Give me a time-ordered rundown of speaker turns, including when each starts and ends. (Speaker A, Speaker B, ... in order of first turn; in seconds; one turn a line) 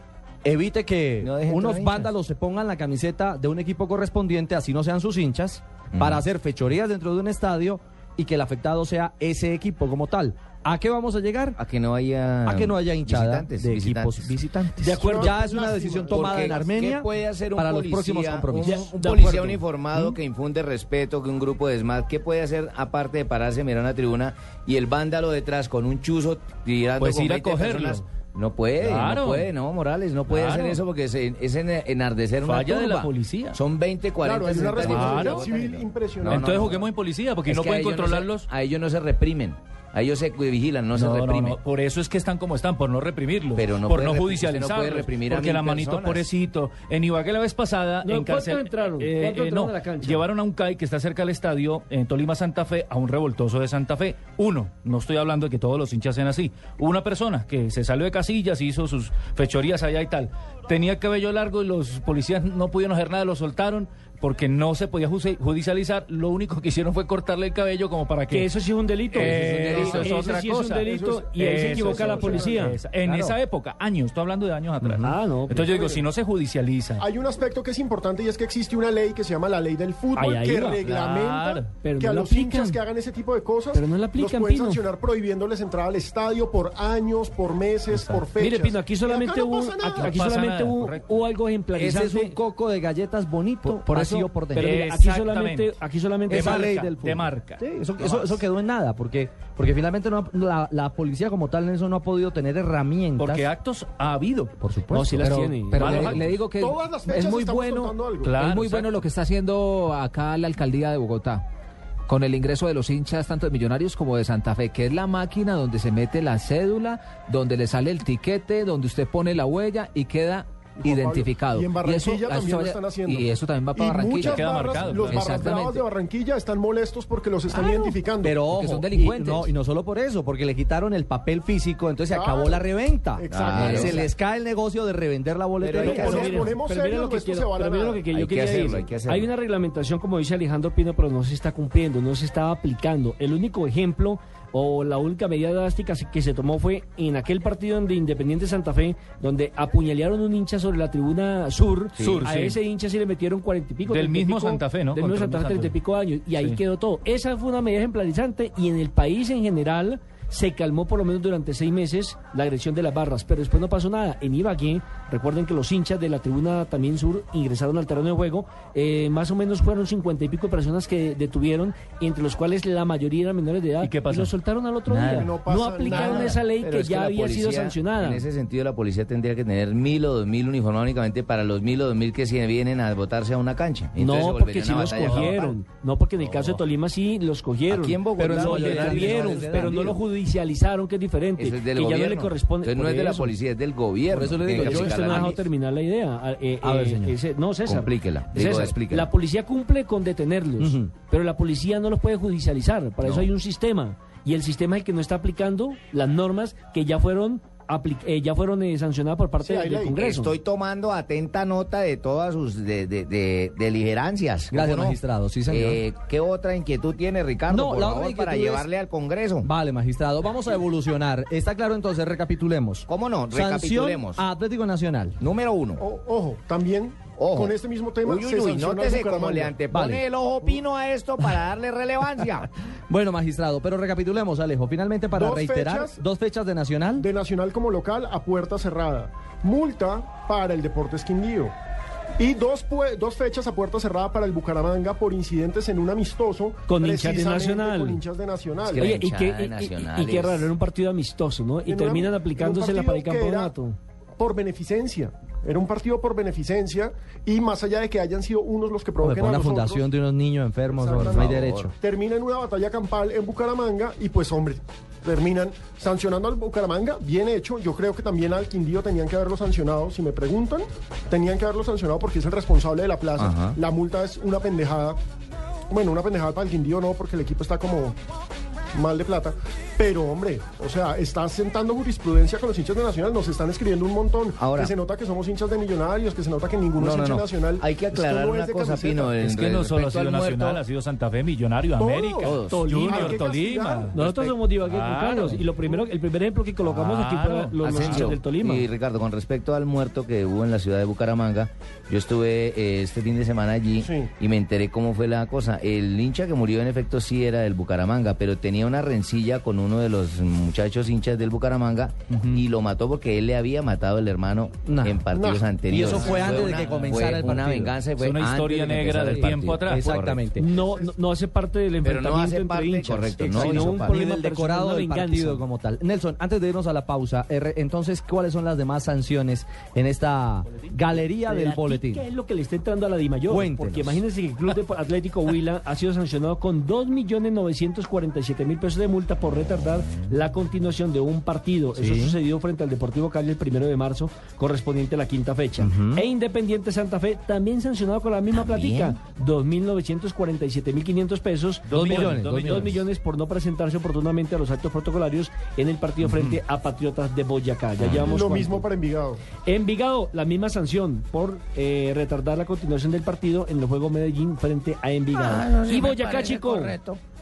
Speaker A: 0.4-11.6
Speaker B: 1.2-2.1
Speaker B: 6.0-6.2
Speaker B: 11.6-14.9
Speaker A: 12.4-18.9
Speaker C: 14.8-15.3
Speaker D: 14.9-16.8
Speaker B: 16.1-36.8
Speaker C: 18.6-19.6
Speaker E: 27.0-28.1
Speaker E: 28.8-29.5
Speaker E: 30.3-30.8
Speaker E: 32.4-33.6
Speaker D: 34.2-36.9
Speaker E: 34.8-35.4
Speaker E: 36.2-38.5
Speaker B: 37.5-41.6
Speaker E: 40.9-68.5
Speaker B: 43.5-46.3
Speaker C: 48.0-50.2
Speaker C: 68.3-73.3
Speaker E: 69.1-77.0
Speaker D: 69.3-70.2
Speaker F: 69.3-69.7
Speaker D: 70.8-72.8
Speaker C: 74.8-75.7
Speaker D: 75.7-76.0
Speaker D: 77.0-90.2
Speaker C: 80.2-80.8
Speaker E: 80.8-81.7
Speaker C: 81.8-82.8
Speaker C: 83.7-84.8
Speaker E: 87.9-88.2
Speaker C: 88.4-92.4
Speaker E: 89.9-91.1
Speaker A: 91.7-94.8
Speaker C: 93.6-96.7
Speaker E: 94.5-95.7
Speaker E: 96.3-98.3
Speaker A: 96.3-103.5
Speaker E: 103.2-104.5
Speaker A: 104.6-105.3
Speaker C: 104.9-106.2
Speaker F: 105.2-111.4
Speaker E: 105.7-106.4
Speaker D: 106.6-108.3
Speaker E: 108.2-109.0
Speaker F: 112.1-125.8
Speaker D: 120.8-128.4
Speaker E: 124.2-125.5
Speaker F: 127.5-127.9
Speaker A: 128.2-136.4
Speaker F: 128.5-129.5
Speaker D: 132.1-132.6
Speaker D: 133.2-134.0
Speaker B: 133.3-134.1
Speaker F: 133.5-134.0
Speaker B: 135.6-136.5
Speaker C: 135.8-178.2
Speaker D: 135.9-138.0
Speaker B: 138.1-139.3
Speaker B: 151.9-152.2
Speaker E: 152.0-152.6
Speaker E: 153.8-155.7
Speaker E: 173.8-174.3
Speaker E: 174.9-175.3
Speaker D: 175.1-176.4
Speaker B: 175.8-185.4
Speaker C: 184.0-193.3
Speaker E: 184.9-185.4
Speaker E: 186.2-186.6
Speaker B: 187.7-189.4
Speaker A: 188.2-189.9
Speaker E: 189.3-189.9
Speaker B: 191.4-195.4
Speaker A: 194.1-195.4
Speaker C: 194.5-210.4
Speaker A: 196.6-197.1
Speaker B: 197.7-199.1
Speaker A: 200.6-200.9
Speaker B: 203.0-203.3
Speaker D: 209.4-210.0
Speaker B: 209.9-219.5
Speaker A: 214.5-215.8
Speaker A: 217.5-218.7
Speaker A: 219.4-225.2
Speaker B: 222.9-224.2
Speaker B: 225.2-225.8
Speaker D: 225.8-229.6
Speaker B: 227.1-232.5
Speaker A: 229.7-230.0
Speaker A: 232.9-237.1
Speaker D: 235.1-236.0
Speaker D: 237.0-241.5
Speaker D: 242.2-248.9
Speaker C: 246.7-248.0
Speaker B: 248.6-250.5
Speaker C: 248.8-253.8
Speaker D: 251.7-253.5
Speaker D: 254.2-259.8
Speaker A: 259.0-261.7
Speaker D: 260.7-275.0
Speaker B: 261.0-261.7
Speaker B: 273.2-273.6
Speaker D: 275.7-278.0
Speaker D: 278.7-289.1
Speaker B: 284.4-284.8
Speaker B: 286.8-290.6
Speaker E: 289.2-295.4
Speaker D: 291.8-294.0
Speaker B: 292.2-292.7
Speaker C: 292.4-293.3
Speaker C: 293.9-298.7
Speaker E: 296.6-298.1
Speaker B: 297.6-320.3
Speaker D: 303.8-304.1
Speaker E: 312.1-312.4
Speaker A: 314.6-315.0
Speaker D: 315.1-316.7
Speaker A: 315.7-317.8
Speaker E: 318.0-320.0
Speaker A: 319.0-320.4
Speaker C: 320.4-325.4
Speaker B: 321.8-324.0
Speaker A: 323.2-332.1
Speaker C: 331.2-358.6
Speaker A: 333.3-334.0
Speaker A: 341.7-342.2
Speaker A: 345.6-346.0
Speaker B: 348.3-349.0
Speaker E: 351.7-352.8
Speaker A: 351.7-352.8
Speaker E: 356.1-356.4
Speaker B: 357.8-358.1
Speaker D: 358.0-359.2
Speaker C: 359.4-366.8
Speaker B: 365.1-367.0